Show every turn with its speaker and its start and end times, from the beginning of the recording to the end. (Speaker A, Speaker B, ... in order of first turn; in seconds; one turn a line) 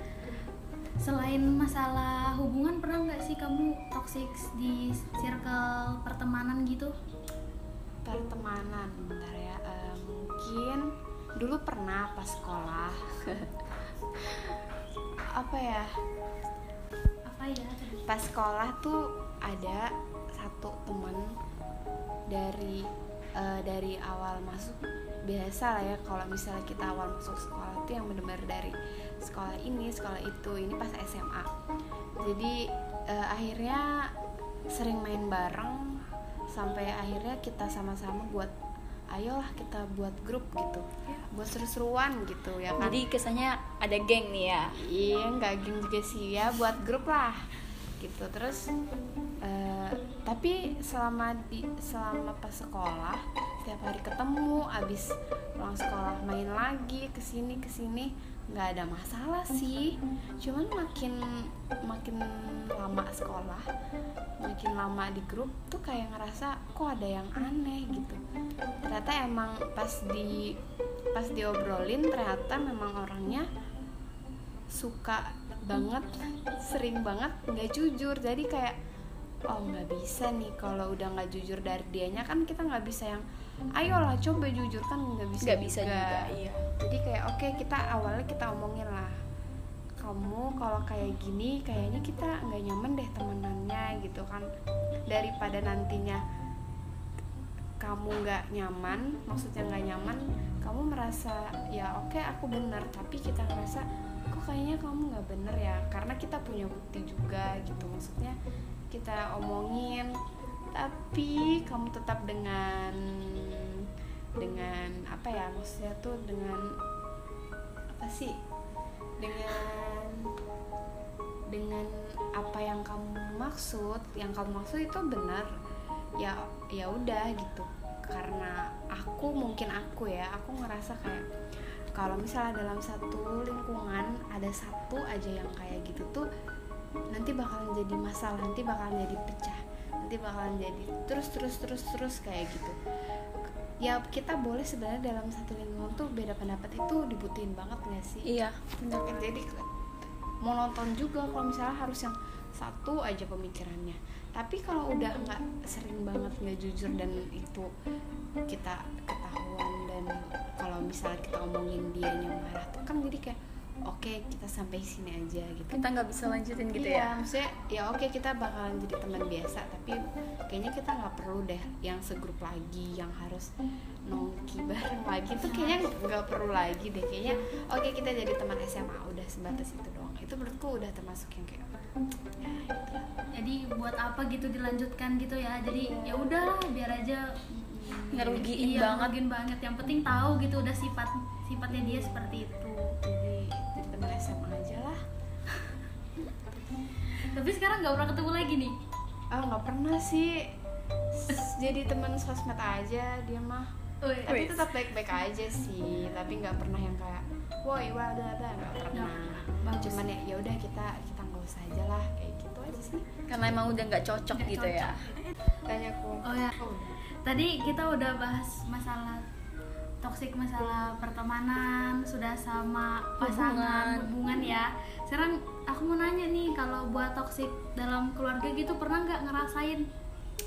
Speaker A: 1.0-6.9
Speaker B: 8.0-10.8
Speaker B: 11.4-13.4
Speaker B: 15.4-15.9
Speaker A: 17.3-18.2
Speaker B: 18.1-19.8
Speaker B: 20.4-21.2
Speaker B: 22.3-22.9
Speaker B: 23.4-31.5
Speaker B: 32.2-32.5
Speaker B: 33.1-33.9
Speaker B: 34.7-35.8
Speaker B: 36.5-38.5
Speaker B: 39.1-43.0
Speaker C: 42.8-44.8
Speaker B: 44.8-47.4
Speaker B: 48.0-48.6
Speaker B: 49.4-61.1
Speaker B: 61.9-62.2
Speaker B: 62.8-63.6
Speaker B: 64.4-68.2
Speaker B: 68.8-70.5
Speaker B: 71.1-73.5
Speaker B: 74.8-76.1
Speaker B: 76.6-78.8
Speaker B: 79.5-83.2
Speaker B: 83.8-89.1
Speaker C: 85.4-86.7
Speaker B: 90.0-94.4
Speaker B: 95.1-96.2
Speaker B: 97.8-108.3
Speaker B: 108.9-110.1
Speaker B: 110.7-113.0
Speaker B: 114.4-116.6
Speaker B: 117.9-118.3
Speaker B: 119.2-120.2
Speaker B: 121.5-125.5
Speaker B: 126.2-131.2
Speaker B: 131.9-136.2
Speaker B: 137.1-142.7
Speaker B: 143.8-148.3
Speaker C: 148.2-149.2
Speaker B: 149.0-149.6
Speaker B: 150.4-157.6
Speaker B: 158.5-160.1
Speaker B: 160.6-163.3
Speaker B: 163.9-165.9
Speaker C: 165.7-167.1
Speaker B: 166.7-169.9
Speaker B: 170.5-173.5
Speaker B: 174.1-181.6
Speaker A: 175.4-175.9
Speaker B: 182.4-183.1
Speaker A: 183.4-187.2
Speaker B: 185.7-186.3
Speaker B: 187.5-188.5
Speaker C: 188.1-189.1
Speaker A: 188.3-192.8
Speaker B: 191.7-192.3
Speaker B: 193.0-194.9
Speaker A: 197.3-198.7
Speaker B: 199.3-200.4
Speaker B: 201.1-203.7
Speaker A: 204.0-204.6
Speaker C: 204.3-204.6
Speaker B: 204.3-213.2
Speaker A: 208.9-210.1
Speaker C: 213.3-215.1
Speaker A: 214.3-215.0
Speaker B: 215.7-217.0
Speaker A: 216.2-216.5
Speaker A: 217.2-219.2
Speaker A: 220.0-229.8
Speaker C: 223.2-224.2